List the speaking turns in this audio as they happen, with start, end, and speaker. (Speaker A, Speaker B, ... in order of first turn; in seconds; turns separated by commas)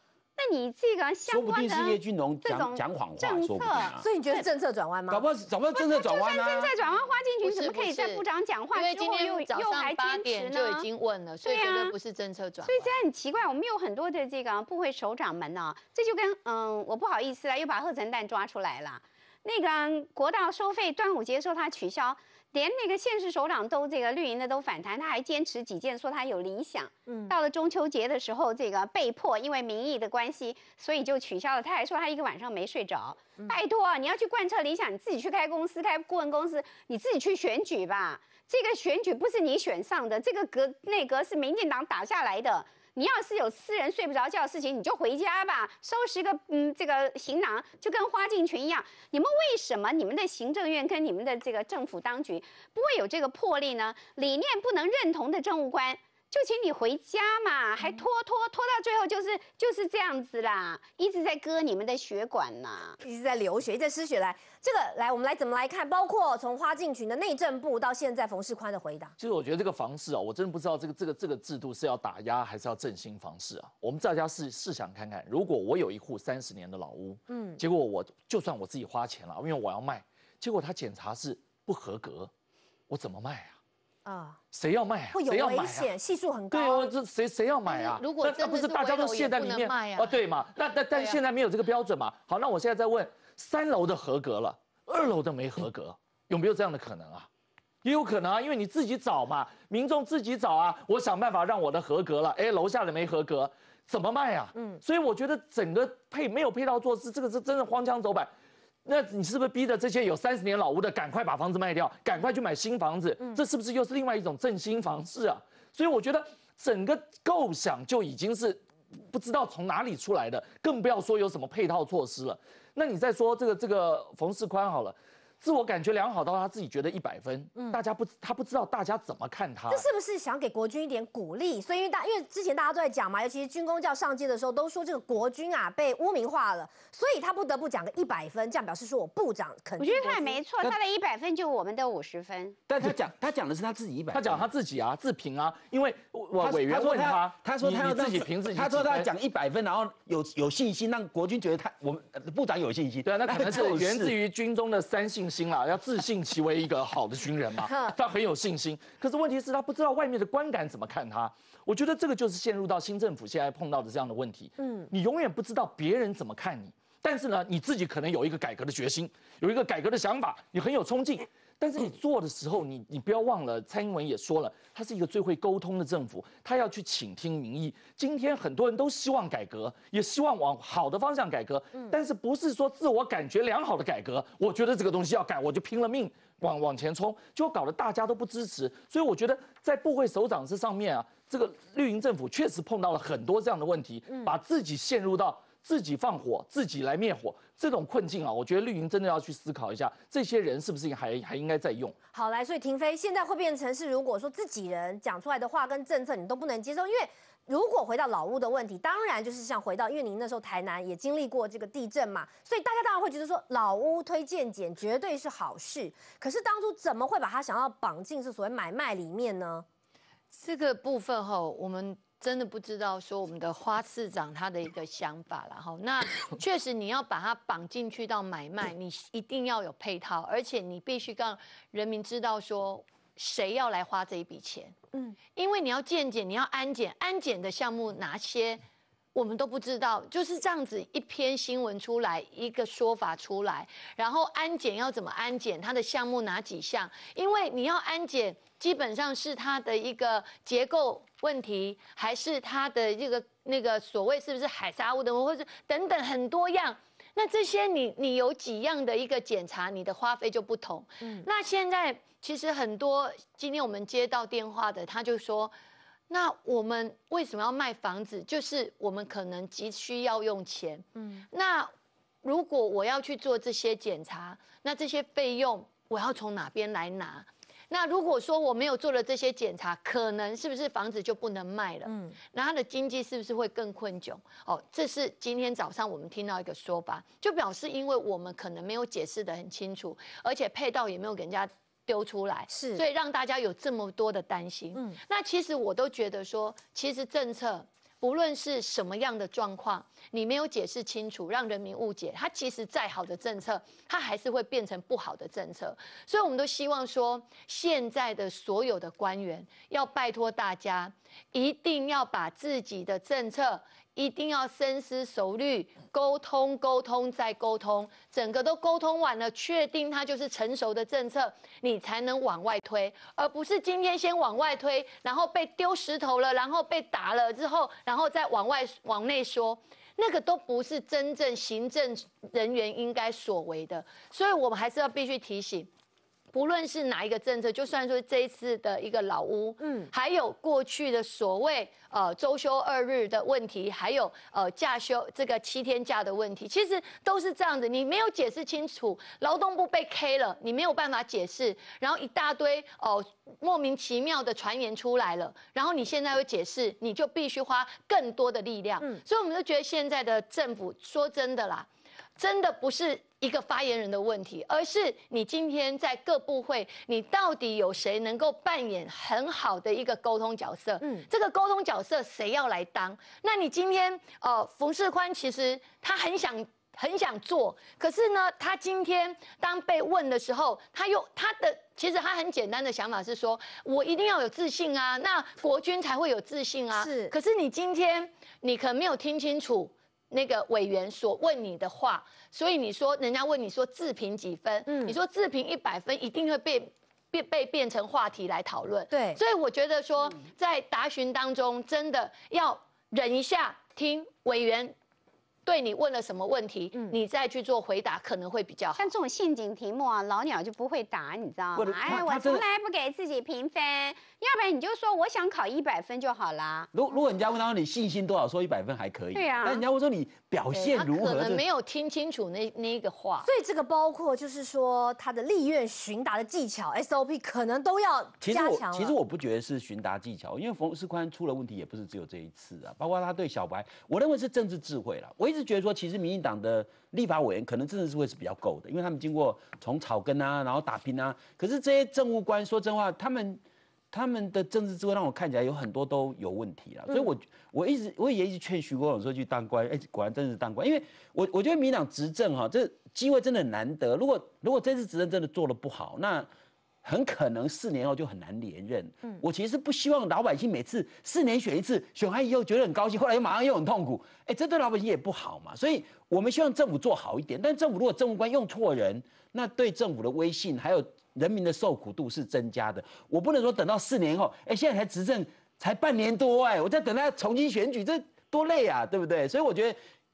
Speaker A: 0.4-4.4, Speaker B: 1.3-4.0, Speaker C: 4.0-5.2, Speaker B: 5.1-6.7, Speaker A: 5.7-10.8, Speaker D: 6.8-12.9, Speaker A: 11.4-11.9, Speaker A: 12.6-63.0, Speaker C: 27.1-27.3, Speaker C: 63.0-69.1, Speaker E: 69.2-82.3, Speaker C: 77.3-77.6, Speaker E: 82.9-83.6, Speaker C: 84.0-84.4, Speaker E: 84.5-85.9, Speaker C: 85.1-86.9, Speaker E: 86.5-97.3, Speaker D: 87.7-90.2, Speaker E: 97.8-108.3, Speaker C: 104.5-104.8, Speaker E: 108.8-129.8, Speaker C: 127.5-127.8, Speaker C: 129.7-140.4, Speaker A: 139.8-142.6, Speaker B: 142.7-144.5, Speaker E: 144.1-149.1, Speaker B: 146.4-154.1, Speaker E: 153.0-201.9, Speaker C: 157.7-157.9, Speaker C: 164.6-164.9, Speaker C: 202.1-219.7, Speaker D: 220.3-234.8, Speaker D: 235.3-238.6, Speaker D: 239.1-265.5, Speaker D: 266.1-271.7, Speaker C: 270.9-271.2, Speaker D: 272.2-335.7, Speaker C: 281.9-282.1, Speaker C: 292.5-292.8, Speaker D: 336.3-404.7, Speaker C: 339.6-339.9, Speaker C: 370.8-371.1, Speaker C: 386.7-387.1, Speaker C: 394.7-394.9, Speaker C: 398.9-399.2, Speaker D: 405.4-408.9, Speaker A: 408.8-416.7, Speaker B: 411.6-412.4, Speaker B: 416.7-421.4, Speaker A: 419.1-419.6, Speaker D: 420.5-423.3, Speaker C: 423.2-428.9, Speaker B: 428.2-443.4, Speaker B: 443.9-456.3, Speaker B: 456.8-479.8